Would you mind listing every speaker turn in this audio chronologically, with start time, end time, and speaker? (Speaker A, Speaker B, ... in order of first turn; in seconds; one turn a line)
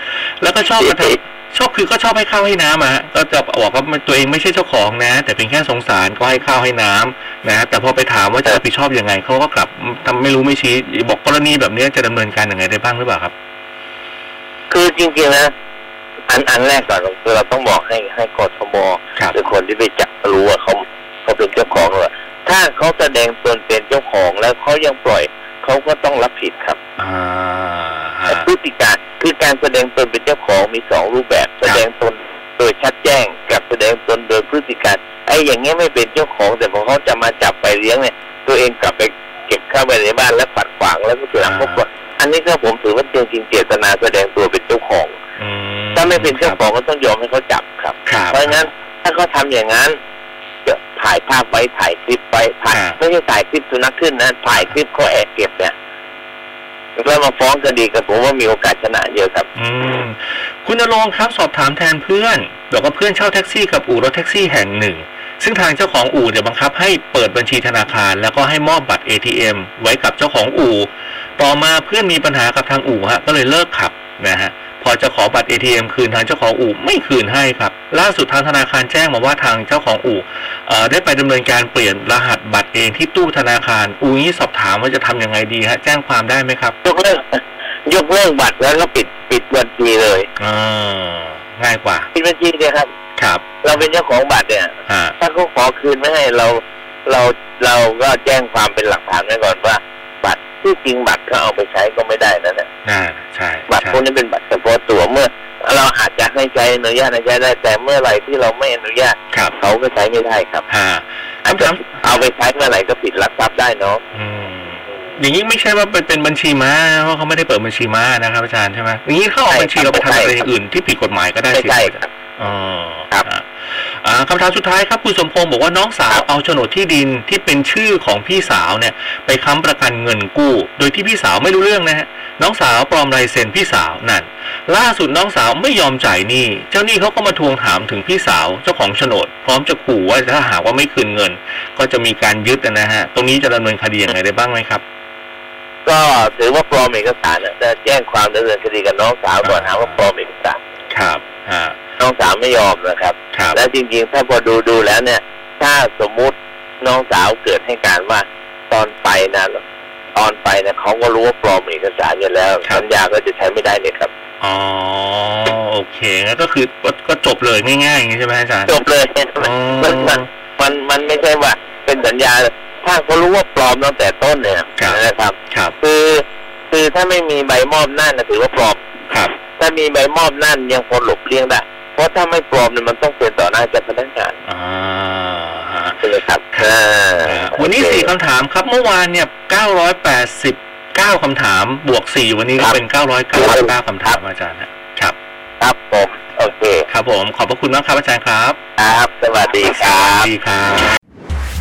Speaker A: 0.4-13.3
Speaker B: 0.8-1.2
Speaker B: 14.7-15.5
Speaker B: 16.3-26.8
Speaker A: 27.0-28.5
Speaker B: 28.3-45.1
Speaker A: 41.4-41.8
Speaker A: 45.4-46.6
Speaker B: 46.0-50.0
Speaker A: 48.1-48.6
Speaker B: 50.7-55.7
Speaker A: 52.7-53.0
Speaker B: 57.0-59.5
Speaker A: 59.5-86.8
Speaker B: 86.8-90.3
Speaker A: 90.4-92.1
Speaker B: 92.1-92.9
Speaker A: 93.2-93.5
Speaker B: 93.6-102.7
Speaker A: 94.9-95.2
Speaker A: 102.8-104.0
Speaker B: 103.7-110.7
Speaker A: 110.7-112.3
Speaker B: 111.5-114.0
Speaker A: 114.1-144.8
Speaker B: 119.5-120.4
Speaker B: 121.5-122.1
Speaker B: 145.9-150.6
Speaker A: 149.4-150.0
Speaker A: 150.9-151.8
Speaker B: 152.0-159.6
Speaker A: 153.3-153.6
Speaker B: 160.2-164.1
Speaker A: 164.4-168.8
Speaker B: 168.7-178.8
Speaker A: 169.4-170.3
Speaker A: 174.8-175.8
Speaker A: 179.1-179.3
Speaker B: 179.5-184.3
Speaker A: 184.4-186.0
Speaker B: 186.0-188.1
Speaker A: 187.2-195.2
Speaker B: 193.3-194.2
Speaker B: 195.6-196.9
Speaker A: 196.9-198.6
Speaker B: 198.8-200.3
Speaker A: 199.8-201.0